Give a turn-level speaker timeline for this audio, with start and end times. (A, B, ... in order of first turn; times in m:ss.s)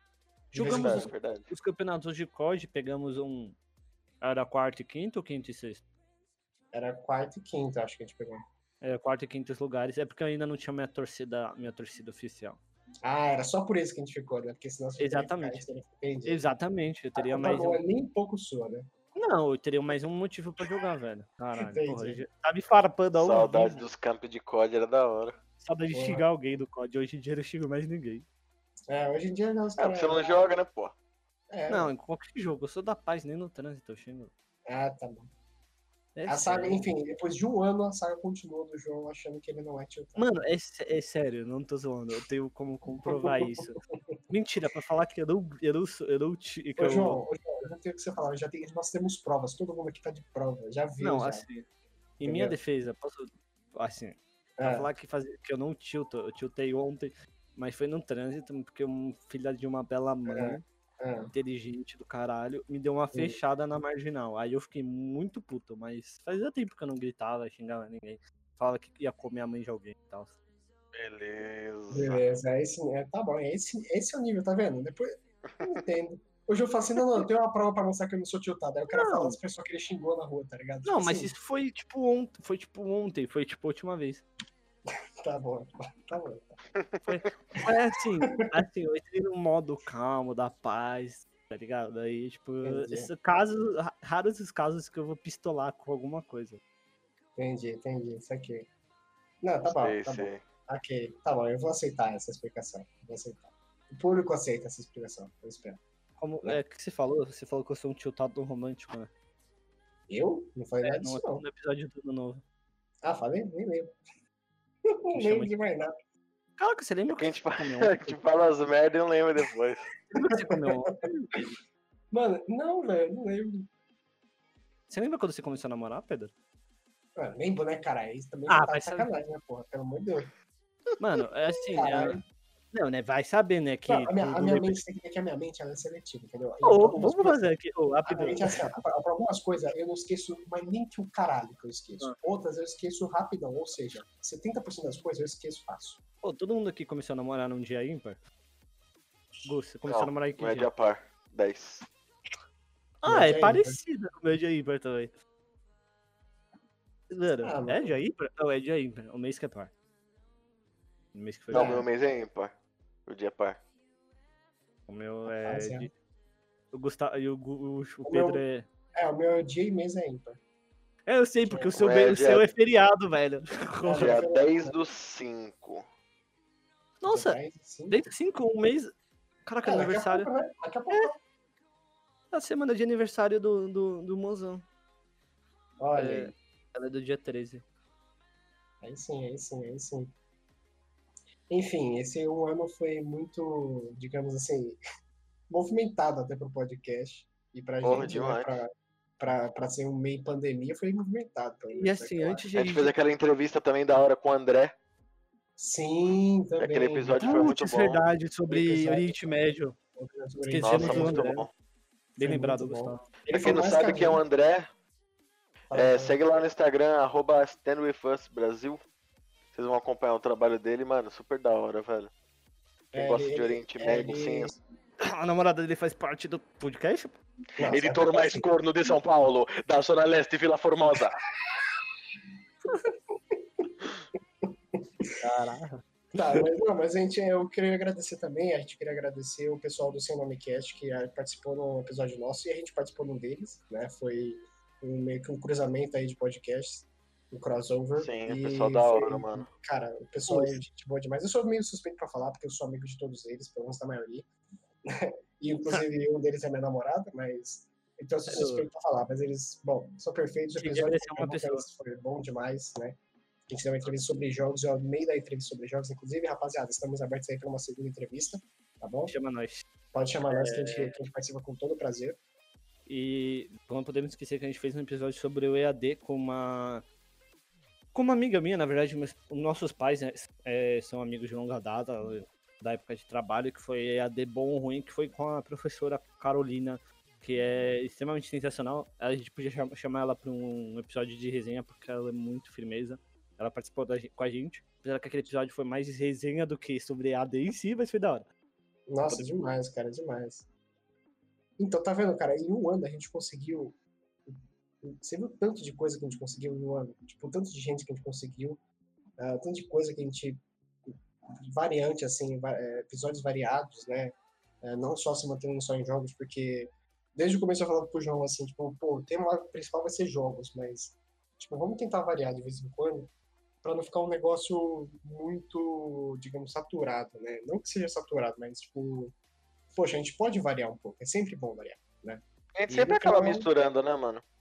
0:00.5-0:01.1 A
0:00.5-0:03.6 B
0:00.6-0:01.5 C
0:04.2-0:05.8 B
0:06.7-0:08.4 A
0:08.8-0:12.6 B
0:13.0-0:16.4 A
0:15.0-0:15.6 B
0:16.2-0:17.8 B
0:17.2-0:18.9 A
0:19.2-0:23.8 B
0:21.7-0:22.2 A
0:23.1-0:25.4 C
0:25.6-0:28.2 B
0:25.9-0:26.3 A
0:28.9-0:30.4 A
0:29.8-0:30.9 C
0:31.5-0:31.9 A
0:31.7-0:34.3 B
0:34.7-0:35.3 A
0:36.2-0:36.9 B
0:36.3-0:40.3 A
0:40.2-0:43.8 B
0:44.3-0:47.2 B
0:46.8-0:51.4 A
0:51.0-0:51.7 B
0:52.2-1:00.6 B
0:52.2-0:52.6 A
0:54.6-0:54.9 A
1:00.3-1:01.3 A
1:01.3-1:10.3 B
1:03.1-1:03.4 A
1:10.9-1:12.2 C
1:11.9-1:15.1 A
1:15.6-1:21.3 A
1:18.9-1:19.4 B
1:20.8-1:24.2 B
1:25.2-1:26.6 A
1:26.8-1:27.3 C
1:27.0-1:36.6 B
1:32.6-1:33.1 A
1:37.4-1:38.7 A
1:39.4-1:45.8 A
1:39.6-1:40.4 C
1:46.2-1:49.1 B
1:50.1-1:51.4 A
1:50.8-1:52.4 B
1:53.0-1:53.9 A
1:55.0-1:55.9 A
1:55.1-1:55.5 B
1:56.6-1:58.2 B
1:57.2-1:59.9 C
2:00.1-2:01.4 B
2:02.1-2:03.7 A
2:04.9-2:06.3 B
2:07.2-2:10.3 A
2:08.5-2:09.1 B
2:11.0-2:12.2 B
2:11.7-2:12.2 A
2:12.7-2:14.8 B
2:13.9-2:17.4 A
2:16.6-2:18.6 B
2:18.0-2:26.0 A
2:26.2-2:28.2 B
2:29.4-2:30.7 B
2:29.8-2:31.9 C
2:33.0-2:35.1 B
2:33.0-2:33.8 A
2:37.1-2:39.7 B
2:37.4-2:38.0 A
2:41.1-2:41.8 B
2:41.5-2:41.9 A
2:41.5-2:42.5 C
2:43.0-2:43.6 C
2:44.9-2:45.9 B
2:45.4-2:45.9 A
2:46.7-2:48.7 B
2:48.0-2:48.4 A
2:49.0-2:50.4 A
2:51.1-2:54.2 B
2:51.4-2:51.8 A
2:51.8-2:52.5 C
2:53.8-2:54.8 A
2:54.0-2:55.8 C
2:57.0-2:57.4 B
2:57.1-2:58.0 A
2:57.9-2:58.9 B
2:59.4-3:00.3 B
2:59.6-3:01.2 A
3:02.3-3:04.6 B
3:05.8-3:06.3 A
3:06.0-3:07.6 B
3:08.8-3:10.1 A
3:11.5-3:14.8 A
3:15.5-3:18.6 A
3:17.8-3:18.5 C
3:19.2-3:22.4 A
3:21.7-3:22.9 B
3:22.5-3:24.7 C
3:25.6-3:27.5 A
3:26.6-3:28.0 C
3:27.2-3:29.8 B
3:28.5-3:29.4 A
3:30.0-3:31.2 A
3:30.4-3:31.5 B
3:30.6-3:31.5 C
3:32.2-3:33.1 B
3:32.2-3:34.2 A
3:33.3-3:34.7 C
3:35.7-3:36.2 A
3:35.7-3:38.8 C
3:39.5-3:42.1 C
3:42.9-3:44.6 A
3:42.9-3:44.5 C
3:45.0-3:47.1 B
3:47.6-3:48.4 A
3:47.7-3:51.2 C
3:55.2-3:56.4 B
3:56.1-4:14.3 A
4:08.0-4:09.5 C
4:10.3-4:10.6 B
4:15.0-4:23.0 A
4:18.3-4:18.7 B
4:20.6-4:21.6 B
4:23.5-4:29.1 A
4:29.1-4:29.6 B
4:29.9-4:32.2 A
4:30.3-4:31.0 B
4:32.8-4:36.8 B
4:37.9-4:58.2 B
4:58.9-5:00.5 A
5:01.6-5:03.8 A
5:04.3-5:08.6 A
5:09.2-5:10.9 A
5:11.5-5:23.1 A
5:23.6-5:29.1 A
5:29.7-5:33.6 A
5:32.6-5:34.2 C